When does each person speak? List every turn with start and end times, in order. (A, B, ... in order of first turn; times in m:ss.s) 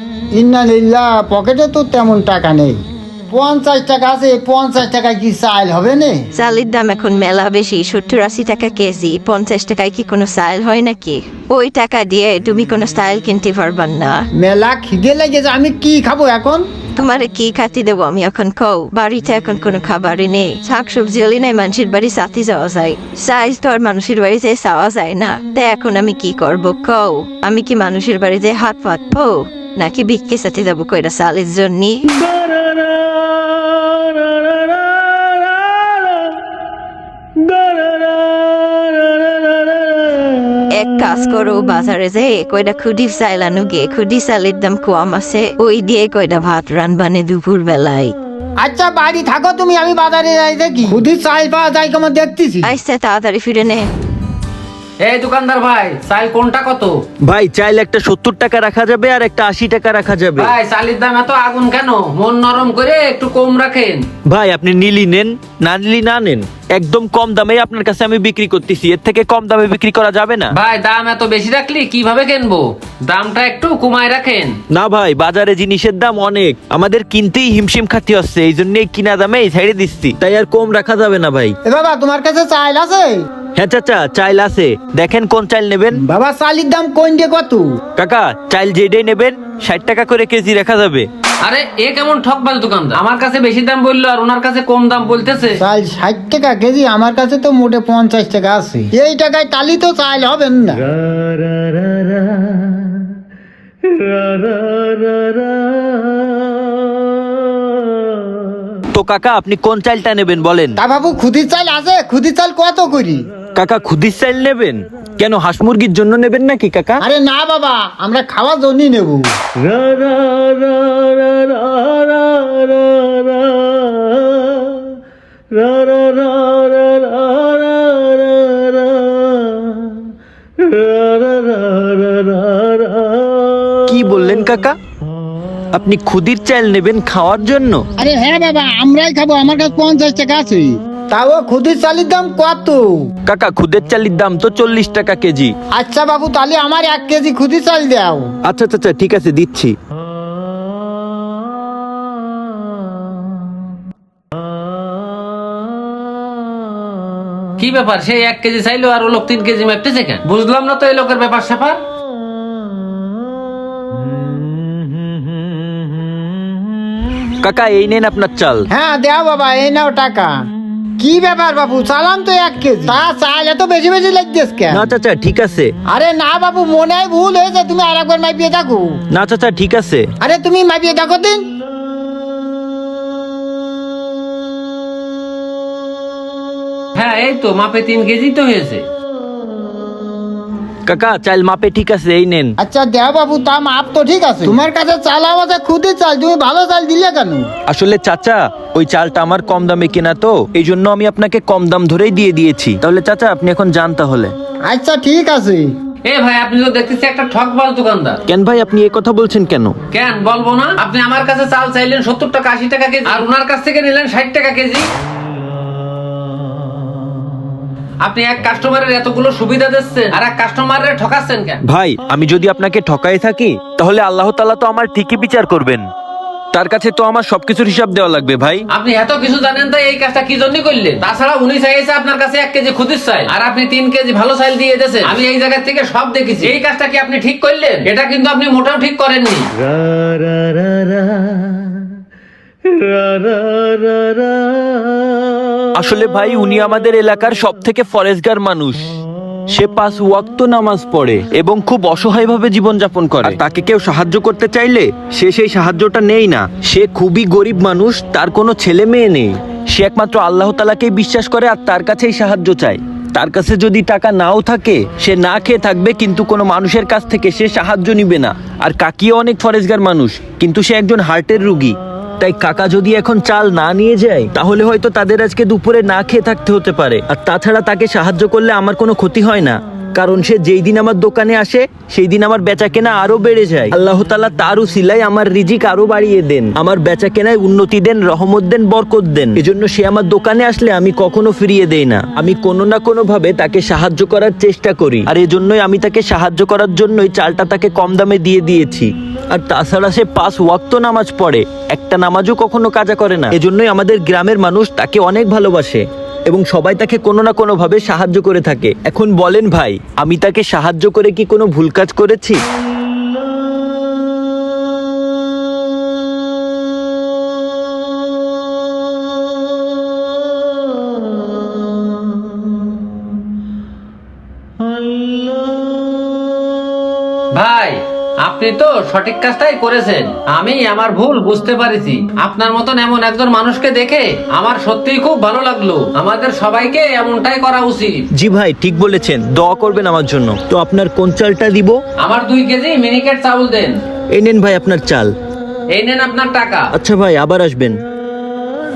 0:00.3-0:06.3 A
0:06.3-0:14.3 B
0:14.4-0:16.6 A
0:17.0-0:32.3 B
0:40.7-0:48.1 B
0:48.6-0:52.7 A
0:52.6-0:53.9 B
0:55.0-0:57.0 C
0:57.2-1:00.5 D
1:00.4-1:04.0 C
1:04.2-1:10.6 D
1:10.5-1:14.6 C
1:14.7-1:21.6 D
1:21.6-1:23.2 A
1:23.6-1:26.0 D
1:25.9-1:27.7 A
1:28.0-1:31.1 D
1:31.4-1:35.6 C
1:35.6-1:40.9 A
1:48.9-1:50.8 D
1:50.8-1:53.2 A
1:53.5-1:57.0 D
1:57.0-1:59.3 A
2:13.9-2:14.8 D
2:15.7-2:17.8 D
2:18.0-2:23.1 A
2:23.2-2:25.5 D
2:25.8-2:28.3 A
2:28.4-2:29.7 D
2:37.6-2:41.8 C
2:47.4-2:48.7 D
2:48.7-2:50.3 A
2:51.0-2:54.9 A
2:54.7-2:55.7 D
2:55.9-2:58.9 A
2:59.1-3:00.1 D
3:00.2-3:01.5 A
3:07.0-3:08.8 C
3:10.8-3:12.6 D
3:12.6-3:17.5 A
3:17.7-3:24.3 D
3:24.7-3:25.7 A
3:26.0-3:28.2 C
3:28.3-3:29.8 D
3:29.9-3:34.9 C
3:38.0-3:41.6 C
3:41.6-3:45.9 D
3:46.5-3:48.6 D
3:48.7-3:59.5 C
4:05.8-4:08.8 D
4:09.5-5:12.4 D
5:27.3-5:38.1 C
5:38.1-5:41.8 D
5:42.0-5:43.8 C
5:44.1-5:45.1 D
5:45.7-5:46.7 C
5:46.7-5:47.8 D